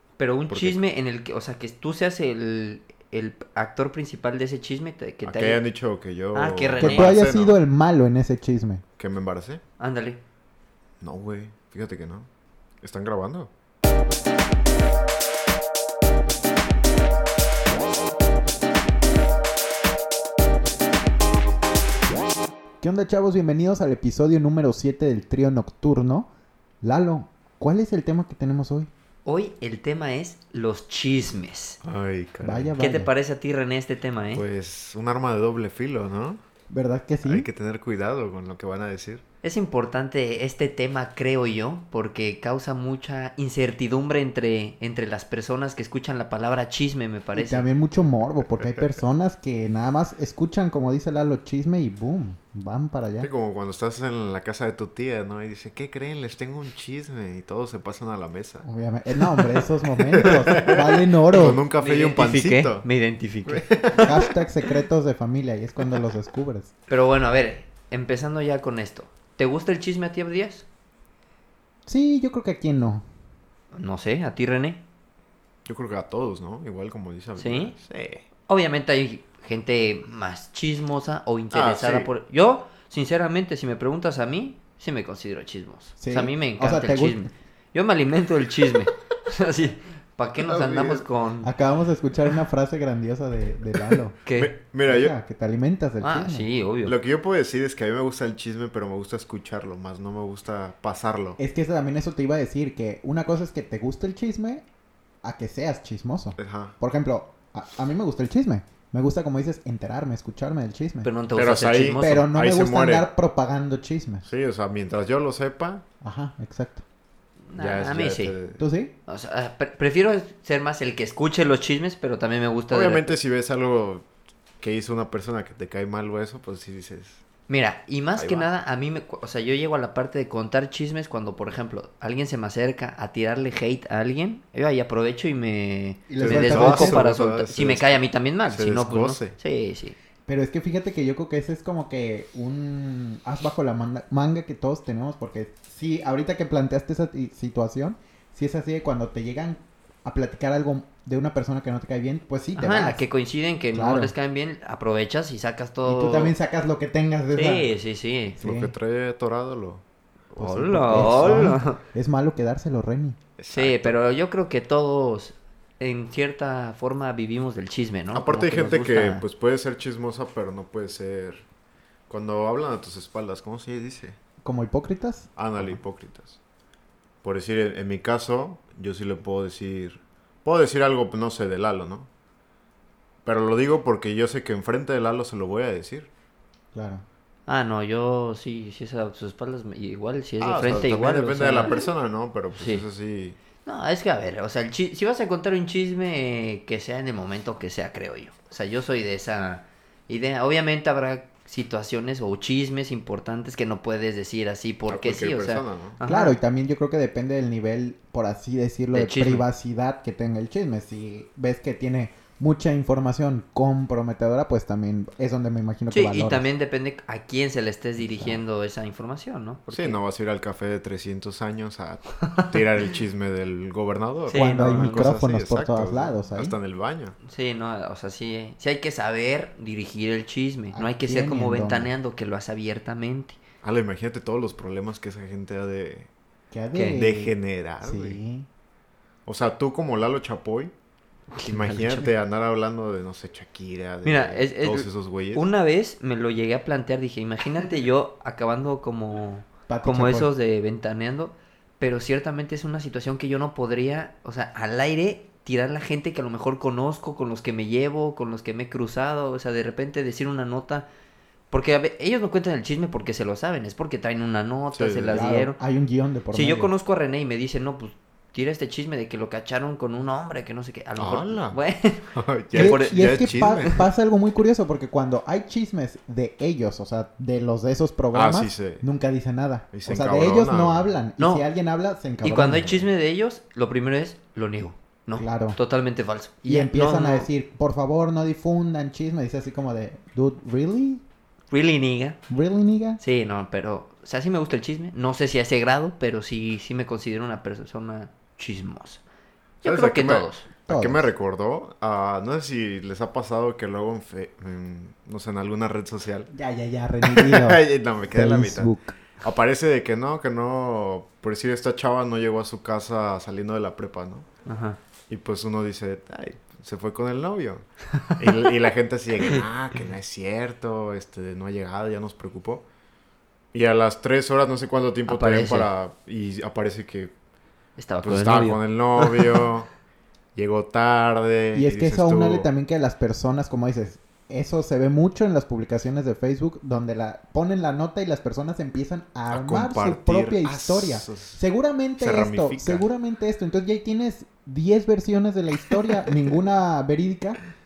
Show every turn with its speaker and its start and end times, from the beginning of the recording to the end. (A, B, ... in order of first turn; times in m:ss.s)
0:00.2-0:05.6 A
0:00.5-0:00.8 B
0:05.2-0:07.6 B
0:06.3-0:07.2 A
0:06.8-0:08.8 C
0:09.0-0:09.6 B
0:09.8-0:10.2 A
0:11.0-0:12.3 B
0:12.8-0:13.5 B
0:22.8-0:26.3 C
0:26.8-0:28.9 C
0:29.2-0:31.8 A
0:31.8-0:32.7 B
0:32.4-0:33.1 C
0:32.8-0:34.4 A
0:34.3-0:36.4 B
0:36.7-0:37.5 C
0:37.2-0:39.2 B
0:39.4-0:47.6 A
0:47.3-0:53.3 C
0:53.2-0:58.7 B
0:58.6-1:01.6 C
0:59.4-1:02.8 B
1:01.7-1:04.2 A
1:03.4-1:04.3 B
1:04.0-1:06.7 C
1:06.9-1:10.6 A
1:11.8-1:13.0 C
1:13.7-1:14.8 A
1:15.6-1:18.2 B
1:17.4-1:17.7 A
1:18.5-1:31.5 A
1:21.5-1:22.1 B
1:26.0-1:27.2 C
1:30.4-1:31.0 B
1:31.4-1:34.2 C
1:34.2-1:34.5 A
1:34.3-1:35.1 B
1:34.8-1:36.5 C
1:36.0-1:36.9 A
1:36.8-1:41.4 B
1:41.4-1:44.6 C
1:45.2-1:51.1 C
1:46.4-1:46.7 B
1:51.0-1:52.3 A
1:51.3-1:53.1 B
1:52.0-1:54.3 C
1:54.2-1:55.8 B
1:56.0-1:56.8 C
1:57.5-1:58.4 A
1:57.6-1:58.6 B
1:58.6-1:58.9 C
1:59.1-2:03.1 A
2:02.7-2:04.0 B
2:04.6-2:07.2 B
2:07.5-2:20.0 A
2:08.1-2:08.5 B
2:16.1-2:17.0 C
2:16.2-2:19.3 B
2:20.3-2:33.0 C
2:32.6-2:36.3 A
2:33.7-2:34.1 C
2:35.8-2:37.7 C
2:37.3-2:38.4 A
2:38.4-2:38.7 C
2:38.4-2:41.6 B
2:40.4-2:41.8 A
2:40.8-2:43.2 C
2:43.4-2:43.9 B
2:43.5-2:49.2 A
2:48.1-2:51.4 B
2:52.1-2:54.2 B
2:54.4-2:55.3 C
2:55.4-2:56.4 B
2:57.2-3:02.1 B
3:03.2-3:06.1 B
3:06.7-3:07.0 C
3:07.5-3:11.8 A
3:10.4-3:13.4 B
3:12.6-3:12.8 A
3:13.6-3:26.4 A
3:24.9-3:26.0 B
3:26.0-3:36.5 C
3:28.9-3:29.4 A
3:35.9-3:40.0 A
3:38.0-3:38.4 C
3:39.7-3:47.1 B
3:44.3-3:45.1 A
3:44.3-3:46.5 C
3:47.2-3:53.4 A
3:50.7-3:51.9 C
3:53.6-3:56.1 B
3:56.5-3:58.5 C
3:56.7-3:57.0 A
3:56.9-3:58.2 B
3:59.2-4:00.7 B
4:01.3-4:02.1 A
4:01.4-4:05.4 B
4:04.0-4:20.9 A
4:09.7-4:10.3 C
4:21.5-4:25.6 A
4:24.7-4:25.3 B
4:25.1-4:26.7 C
4:26.3-4:33.8 A
4:31.0-4:31.6 B
4:32.1-4:33.8 B
4:32.5-4:42.9 C
4:38.1-4:38.8 B
4:39.7-4:40.9 B
4:41.2-4:41.4 A
4:42.2-4:47.3 A
4:45.1-4:45.6 C
4:46.4-4:51.0 C
4:51.5-4:52.2 A
4:52.3-4:53.0 C
4:53.0-4:59.0 A
4:59.6-5:00.5 A
4:59.6-5:06.3 B
5:00.7-5:01.1 C
5:06.3-5:08.9 C
5:07.0-5:14.3 B
5:14.4-5:14.8 A
5:15.1-5:22.6 B
5:18.0-5:18.3 A
5:19.2-5:19.4 A
5:23.5-5:27.1 B
5:25.1-5:25.7 A
5:27.8-5:29.5 A
5:28.0-5:29.7 B
5:30.3-5:32.5 B
5:31.5-5:47.4 C
5:39.3-5:41.4 B
5:42.0-5:42.9 B